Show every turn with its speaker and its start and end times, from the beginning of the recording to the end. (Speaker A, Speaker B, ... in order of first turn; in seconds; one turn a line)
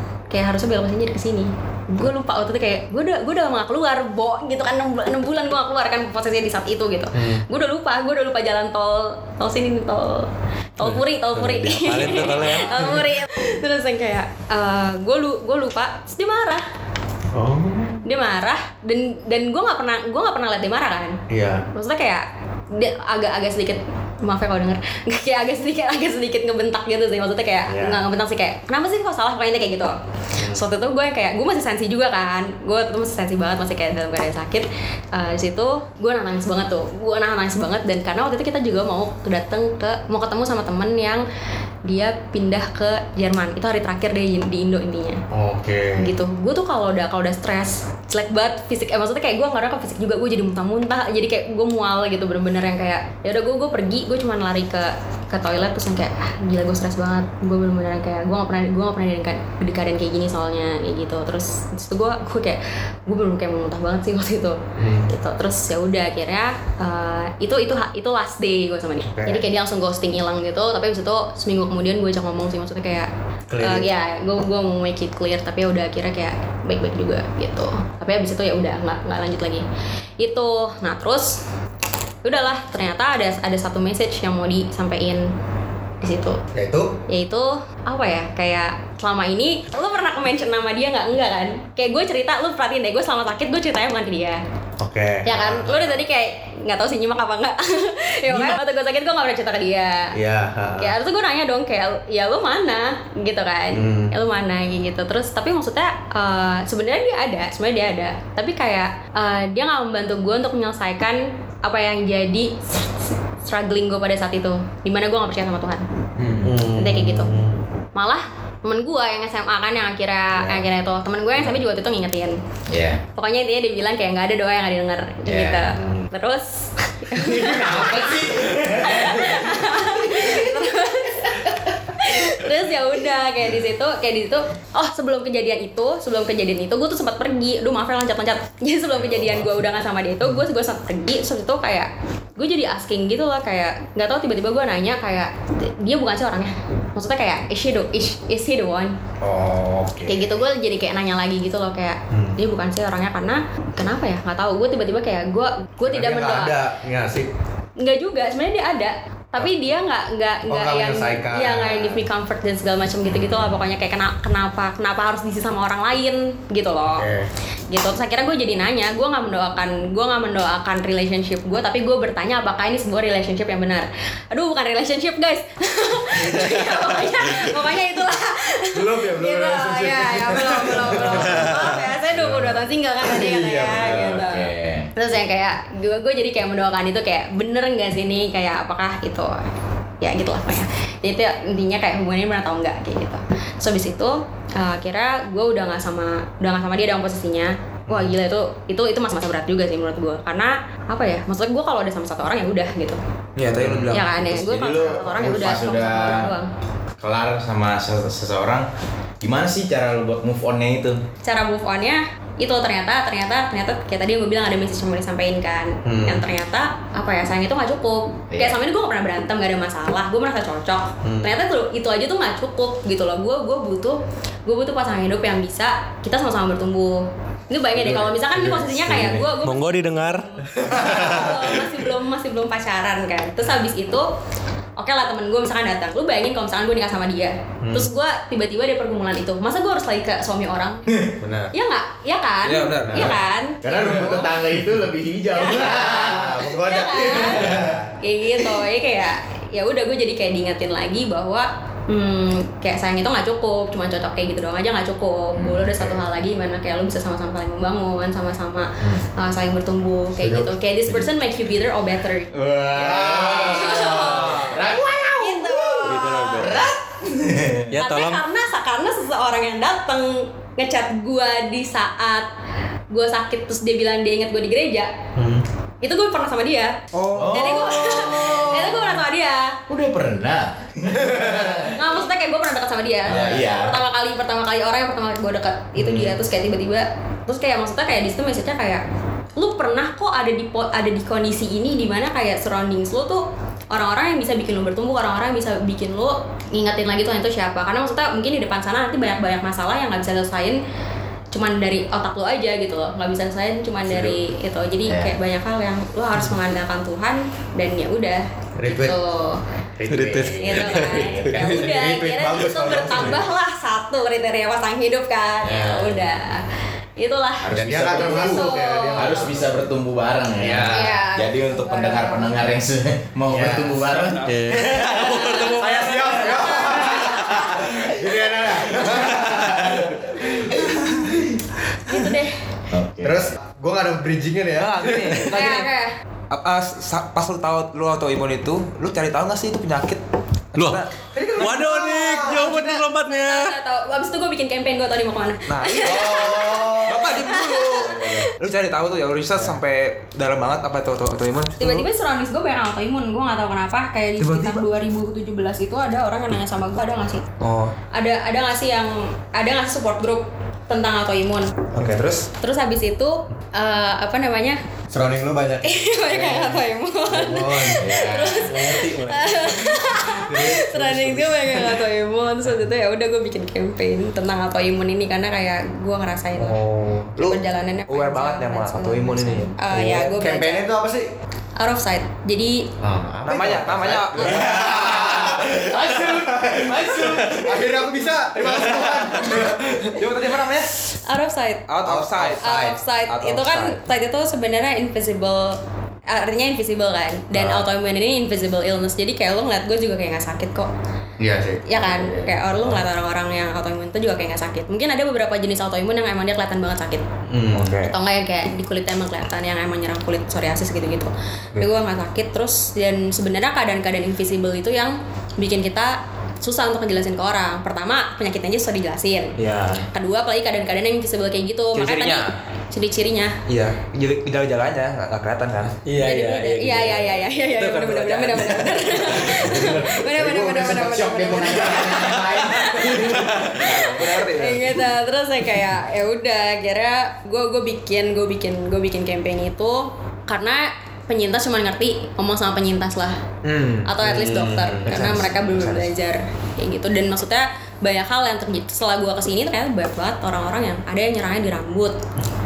Speaker A: 0.3-16.6
Speaker B: 7.1-7.4
Speaker C: 10.8-13.1
Speaker B: 17.3-18.0
Speaker A: 18.0-21.2
Speaker B: 21.3-21.6
Speaker A: 21.7-29.9
Speaker B: 27.7-28.0
Speaker B: 30.4-30.6
Speaker A: 30.5-41.2
Speaker A: 41.8-45.2
Speaker B: 45.3-46.1
Speaker A: 46.0-73.1
Speaker B: 64.8-65.1
Speaker B: 69.1-69.5
Speaker B: 73.5-73.9
Speaker A: 73.6-79.7
Speaker A: 80.2-81.4
Speaker A: 82.2-85.3
Speaker A: 86.0-86.4
Speaker B: 86.5-86.9
Speaker A: 87.1-94.4
Speaker B: 94.8-96.0
Speaker A: 95.2-100.2
Speaker B: 100.1-101.0
Speaker A: 100.8-115.8
Speaker B: 103.7-104.1
Speaker D: 116.2-116.5
Speaker B: 116.4-117.6
Speaker A: 116.7-117.4
Speaker A: 117.9-122.4
Speaker B: 120.3-120.7
Speaker E: 122.7-123.0
Speaker A: 123.1-149.0
Speaker E: 125.2-125.8
Speaker B: 125.8-126.1
Speaker E: 127.2-129.5
Speaker B: 127.4-129.1
Speaker B: 149.2-150.4
Speaker A: 150.1-156.6
Speaker B: 152.1-152.4
Speaker B: 155.8-157.3
Speaker A: 157.8-167.1
Speaker B: 160.4-162.1
Speaker B: 166.9-167.3
Speaker A: 167.7-189.5
Speaker B: 178.7-184.2
Speaker E: 183.2-184.9
Speaker A: 190.0-203.0
Speaker D: 203.4-204.1
Speaker E: 203.6-206.3
Speaker A: 203.9-206.5
Speaker E: 207.0-208.7
Speaker E: 209.2-211.0
Speaker A: 211.2-234.1
Speaker B: 215.8-216.2
Speaker E: 218.3-218.6
Speaker B: 221.0-221.3
Speaker C: 229.3-231.6
Speaker A: 234.8-240.8
Speaker B: 237.6-237.9
Speaker B: 241.2-241.5
Speaker A: 241.5-244.4
Speaker D: 242.4-243.1
Speaker B: 242.8-247.9
Speaker E: 243.6-246.4
Speaker A: 245.3-266.7
Speaker E: 247.1-247.8
Speaker E: 255.3-256.0
Speaker E: 260.2-261.1
Speaker E: 262.3-267.7
Speaker B: 262.8-264.7
Speaker C: 265.8-266.7
Speaker C: 267.7-268.2
Speaker A: 267.7-272.3
Speaker A: 272.9-274.9
Speaker B: 275.1-275.4
Speaker A: 275.8-279.6
Speaker D: 276.9-277.5
Speaker E: 277.1-279.0
Speaker E: 279.7-281.8
Speaker B: 281.1-281.6
Speaker A: 281.7-288.8
Speaker E: 283.1-283.8
Speaker E: 285.8-286.2
Speaker A: 289.4-300.6
Speaker A: 301.3-309.4
Speaker E: 304.8-305.1
Speaker B: 308.6-309.0
Speaker B: 309.8-313.3
Speaker C: 309.9-311.5
Speaker A: 310.2-319.3
Speaker E: 315.5-315.9
Speaker B: 315.5-315.9
Speaker E: 317.4-325.3
Speaker B: 317.5-319.6
Speaker B: 320.4-321.0
Speaker A: 320.6-322.6
Speaker B: 323.2-331.0
Speaker D: 323.6-324.6
Speaker C: 324.2-326.7
Speaker A: 326.2-327.8
Speaker A: 331.9-332.4
Speaker E: 332.7-333.3
Speaker B: 333.0-335.6
Speaker D: 334.6-335.7
Speaker A: 335.3-335.9
Speaker D: 336.3-340.0
Speaker D: 340.5-340.9
Speaker C: 340.5-340.8
Speaker B: 341.1-342.8
Speaker C: 341.4-343.6
Speaker A: 342.7-348.3
Speaker D: 345.4-351.9
Speaker E: 345.9-347.1
Speaker B: 345.9-347.1
Speaker A: 351.6-357.3
Speaker D: 354.2-354.6
Speaker D: 357.4-357.7
Speaker A: 357.9-361.6
Speaker B: 361.7-362.0
Speaker D: 361.7-362.3
Speaker A: 362.4-364.6
Speaker B: 364.9-368.1
Speaker A: 365.6-376.6
Speaker E: 367.8-368.6
Speaker C: 368.4-369.9
Speaker B: 370.0-371.6
Speaker D: 376.4-380.1
Speaker A: 377.2-380.7
Speaker B: 379.9-381.1
Speaker A: 381.6-382.7
Speaker B: 382.8-389.9
Speaker D: 383.2-385.4
Speaker D: 388.5-390.7
Speaker A: 391.0-391.7
Speaker D: 391.7-393.8
Speaker B: 391.8-392.8
Speaker A: 392.4-400.7
Speaker B: 401.2-402.6
Speaker A: 401.6-407.0
Speaker B: 407.3-407.8
Speaker D: 407.5-407.9
Speaker A: 407.9-423.4
Speaker D: 419.4-419.9
Speaker D: 421.7-422.4
Speaker D: 423.5-425.9
Speaker C: 425.8-428.9
Speaker A: 426.0-443.2
Speaker D: 428.9-429.4
Speaker B: 429.3-433.8
Speaker E: 429.5-433.4
Speaker D: 432.8-434.8
Speaker D: 443.4-445.9
Speaker A: 443.8-452.0
Speaker B: 444.0-445.1